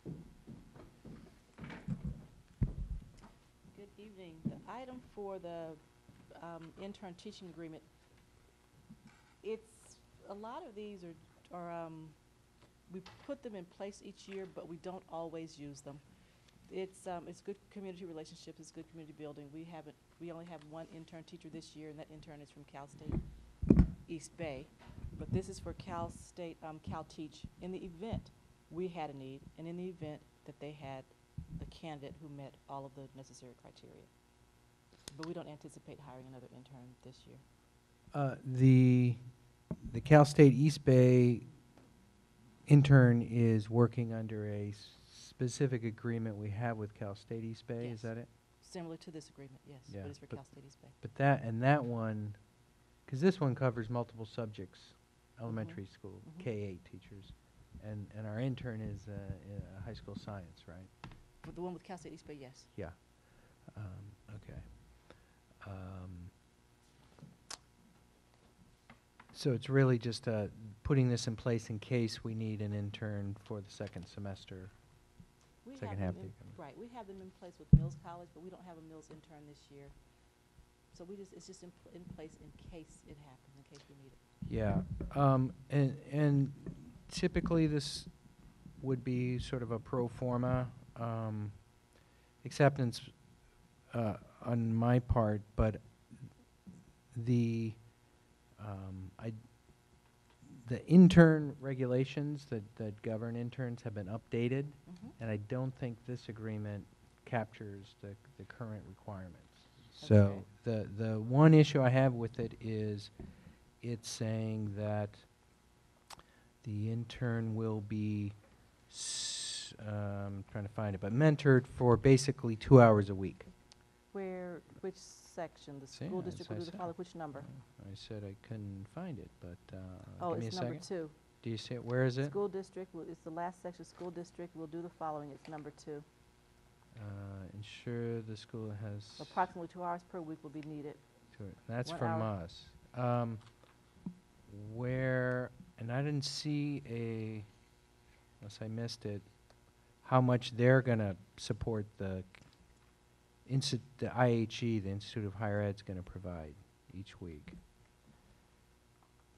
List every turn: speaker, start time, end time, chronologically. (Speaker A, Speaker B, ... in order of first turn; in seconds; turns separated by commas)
Speaker A: 3.7-7.9, Speaker A: 9.4-34.6, Speaker A: 35.1-37.4, Speaker B: 38.1-41.7, Speaker B: 42.6-48.3, Speaker A: 47.8-50.9, Speaker B: 49.9-60.9, Speaker A: 55.5-56.5, Speaker A: 61.4-62.7, Speaker B: 62.7-66.3, Speaker B: 69.3-75.2, Speaker A: 75.6-79.9, Speaker B: 75.8-76.6, Speaker A: 80.9-84.2, Speaker B: 84.5-115.7, Speaker A: 104.9-105.1, Speaker A: 110.0-110.5, Speaker B: 116.6-123.5, Speaker A: 124.1-127.5, Speaker B: 125.9-132.3, Speaker A: 130.2-131.2, Speaker A: 132.2-136.1, Speaker B: 136.9-139.4, Speaker A: 139.2-141.0, Speaker B: 141.3-143.8, Speaker A: 141.8-142.4, Speaker B: 144.5-147.7, Speaker B: 148.4-157.6